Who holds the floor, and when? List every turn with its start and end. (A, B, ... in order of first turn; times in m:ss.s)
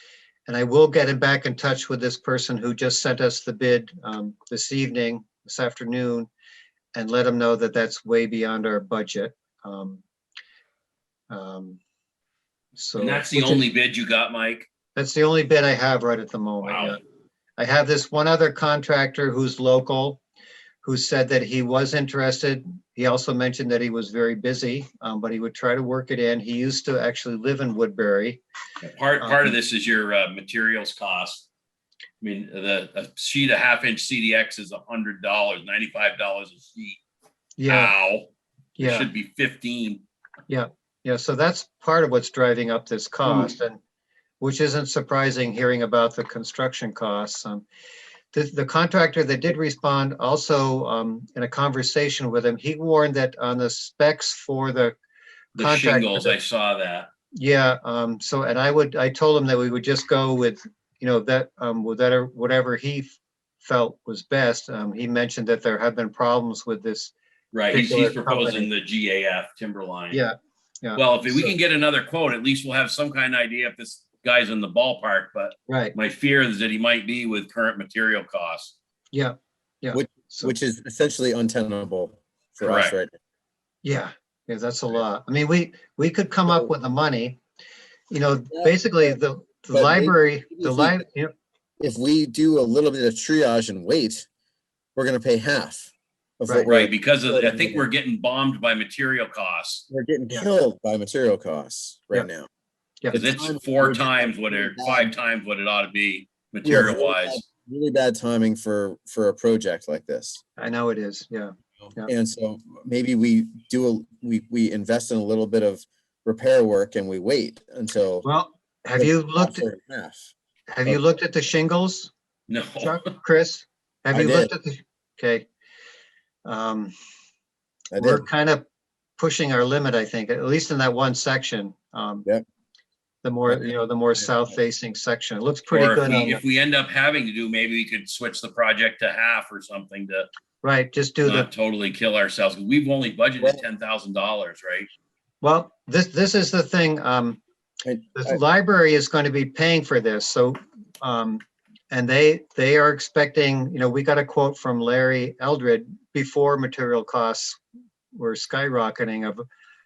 0:00.5-0:06.3 A
0:07.0-0:10.0 A
0:11.3-0:11.8 A
0:12.8-0:13.6 A
0:13.0-0:14.7 B
0:15.0-0:17.0 A
0:16.6-0:17.0 B
0:17.6-0:20.2 A
0:20.8-0:28.4 A
0:28.8-0:31.5 B
0:29.2-0:29.6 A
0:32.2-0:37.0 B
0:37.6-0:37.9 A
0:37.7-0:40.0 B
0:38.8-0:39.1 A
0:40.5-0:43.8 A
0:44.4-0:47.7 A
0:48.3-0:55.0 A
0:55.6-0:56.4 A
0:55.6-0:57.1 B
0:57.3-1:07.1 A
1:07.5-1:10.2 B
1:07.7-1:08.7 A
1:10.1-1:11.6 A
1:11.0-1:18.7 B
1:15.7-1:15.9 A
1:19.1-1:20.6 A
1:19.9-1:23.1 C
1:22.6-1:23.0 B
1:23.8-1:27.4 A
1:28.1-1:31.3 A
1:28.5-1:29.1 C
1:29.7-1:31.0 C
1:31.8-1:34.3 C
1:35.0-1:37.9 C
1:36.5-1:36.7 A
1:36.7-1:39.8 B
1:39.9-1:42.5 C
1:43.1-1:45.1 C
1:43.1-1:47.4 B
1:46.6-1:50.4 C
1:50.6-1:52.1 A
1:52.0-1:58.3 C
1:58.2-1:59.7 A
1:59.0-2:00.3 C
2:00.7-2:02.1 A
2:02.5-2:03.1 B
2:02.8-2:05.5 A
2:04.1-2:04.5 C
2:06.4-2:06.9 A
2:07.9-2:08.3 C
2:08.0-2:08.7 A
2:09.2-2:12.3 A
2:13.2-2:16.4 A
2:13.5-2:14.3 C
2:15.7-2:20.3 B
2:20.6-2:21.5 A
2:21.2-2:24.9 B
2:25.4-2:27.4 A
2:27.8-2:28.4 C
2:28.2-2:37.6 A
2:38.1-2:39.4 A